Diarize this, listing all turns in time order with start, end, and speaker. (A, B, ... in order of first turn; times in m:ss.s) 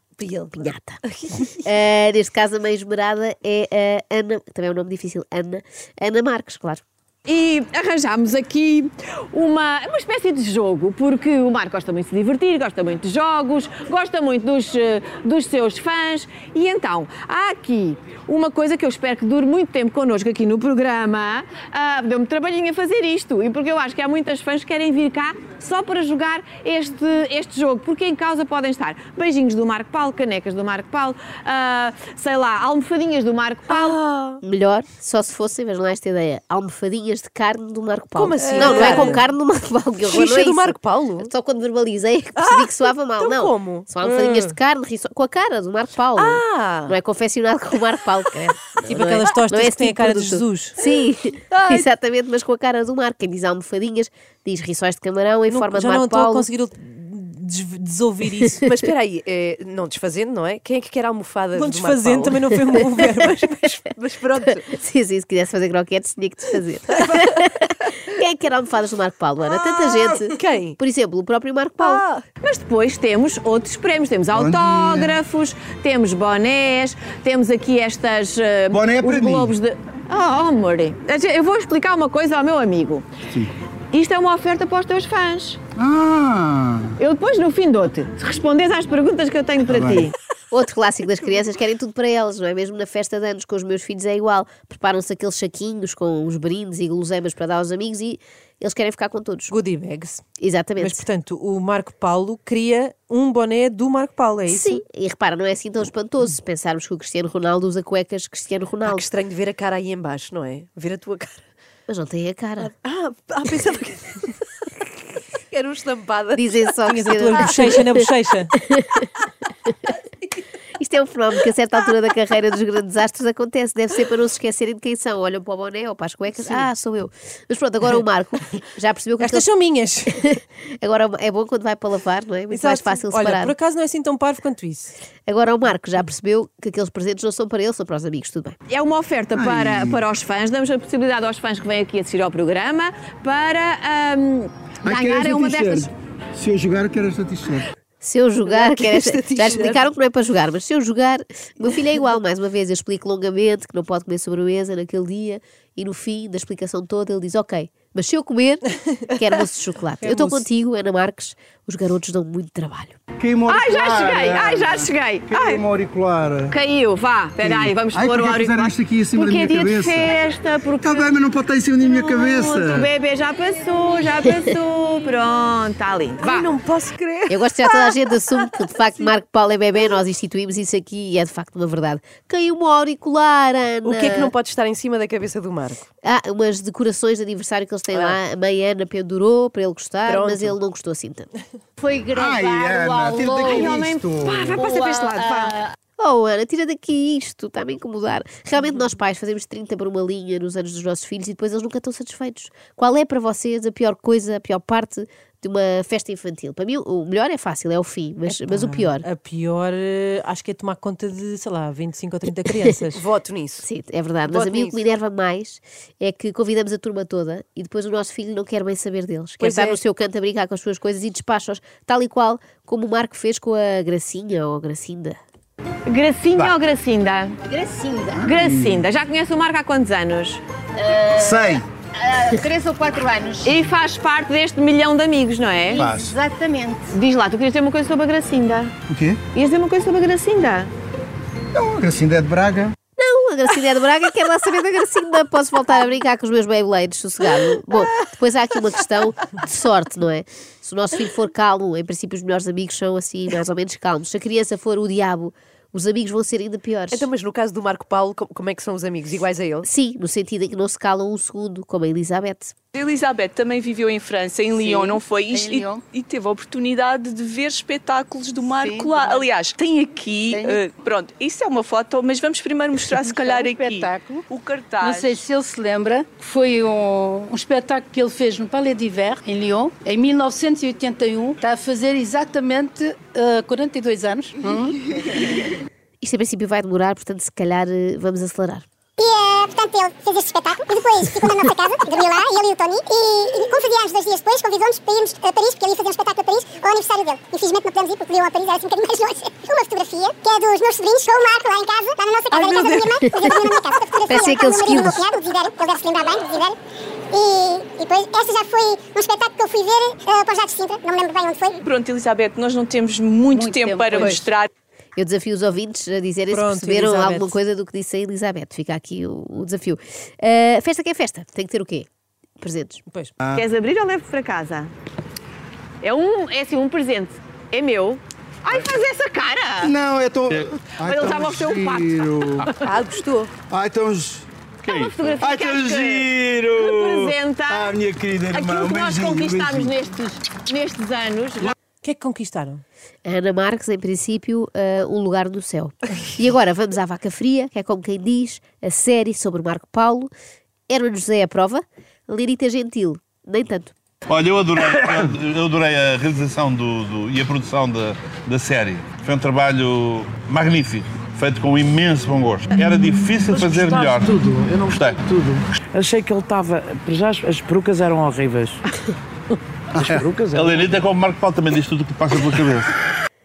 0:00.2-0:01.0 A
0:01.0-0:01.6 B
0:01.6-0:06.8 A
0:07.2-0:34.0 C
0:33.7-0:34.4 B
0:34.4-0:56.4 A
0:38.1-0:39.3 B
0:40.0-0:41.3 B
0:42.4-0:44.6 B
0:46.1-0:46.9 B
0:48.8-0:50.7 D
0:51.5-0:51.9 B
0:55.5-0:58.6 D
0:58.6-1:04.7 B
1:01.5-1:03.7 D
1:04.4-1:12.0 A
1:09.4-1:10.8 B
1:11.8-1:12.3 B
1:12.4-1:23.0 C
1:14.3-1:15.2 E
1:18.7-1:19.5 E
1:23.9-1:25.6 C
1:25.8-1:26.9 E
1:27.0-1:30.1 C
1:29.7-1:30.1 E
1:30.5-1:39.5 A
1:39.5-1:40.2 D
1:40.4-1:41.0 A
1:40.8-1:44.8 D
1:44.5-1:49.1 A
1:48.9-1:51.5 B
1:51.9-1:52.7 A
1:52.6-1:54.3 B
1:55.4-1:56.8 B
1:56.4-1:58.0 A
1:56.9-1:58.5 D
1:57.4-1:58.0 B
1:58.5-1:59.1 A
2:00.8-2:09.4 A
2:06.3-2:06.7 D
2:09.2-2:10.2 D
2:10.2-2:13.5 A
2:12.5-2:14.9 D
2:15.3-2:18.6 A
2:18.7-2:25.9 C
2:19.3-2:20.0 E
2:24.8-2:27.7 E
2:28.0-2:43.0 A
2:28.4-2:29.9 B
2:40.0-2:40.4 D
2:43.2-2:46.5 E
2:43.5-2:45.6 C
2:46.5-2:51.1 C
2:47.4-2:50.1 E
2:50.8-2:52.9 E
2:51.8-2:56.5 C
2:56.2-2:58.4 B
2:57.3-3:04.3 A
3:03.8-3:05.8 B
3:06.0-3:11.3 A
3:07.9-3:08.2 B
3:10.0-3:10.6 B
3:12.1-3:14.6 E
3:12.5-3:12.8 F
3:13.4-3:15.6 C
3:16.0-3:29.1 A
3:28.2-3:33.1 D
3:32.9-3:33.7 B
3:33.6-3:45.2 A
3:34.2-3:34.8 B
3:39.4-3:39.8 B
3:45.9-3:47.4 C
3:48.2-3:48.8 E
3:48.2-3:50.4 C
3:51.1-3:51.6 E
3:52.5-3:53.5 G
3:53.4-3:55.9 C
3:55.7-3:56.1 E
3:55.9-3:56.6 G
3:56.9-3:58.7 C
3:58.9-3:59.2 E
3:59.3-4:00.7 C
4:01.5-4:02.7 E
4:03.0-4:17.1 A
4:16.9-4:19.7 B
4:19.6-4:22.5 A
4:22.7-4:35.2 H
4:24.6-4:25.8 G
4:28.5-4:29.2 G
4:30.3-4:30.6 G
4:33.0-4:34.2 G
4:34.8-4:44.9 G
4:46.0-4:48.6 A
4:49.0-5:06.6 I
5:02.3-5:03.5 A
5:04.0-5:05.0 A
5:07.1-5:11.6 I
5:11.6-5:14.5 H
5:13.3-5:14.2 G
5:15.0-5:21.9 A
5:16.3-5:17.4 D
5:22.4-5:22.8 A
5:22.9-5:23.1 D
5:23.3-5:24.7 C
5:25.8-5:29.7 C
5:29.6-5:32.5 E
5:30.8-5:32.7 C
5:32.6-5:33.4 B
5:33.4-5:34.3 E
5:34.6-5:35.2 J
5:34.6-5:37.8 C
5:35.2-5:39.7 E
5:38.3-5:41.5 C
5:41.8-5:42.6 D
5:43.0-5:50.1 A
5:50.7-5:53.7 A
5:54.1-6:05.0 J
6:03.3-6:08.6 F
6:09.8-6:10.7 F
6:10.3-6:12.7 J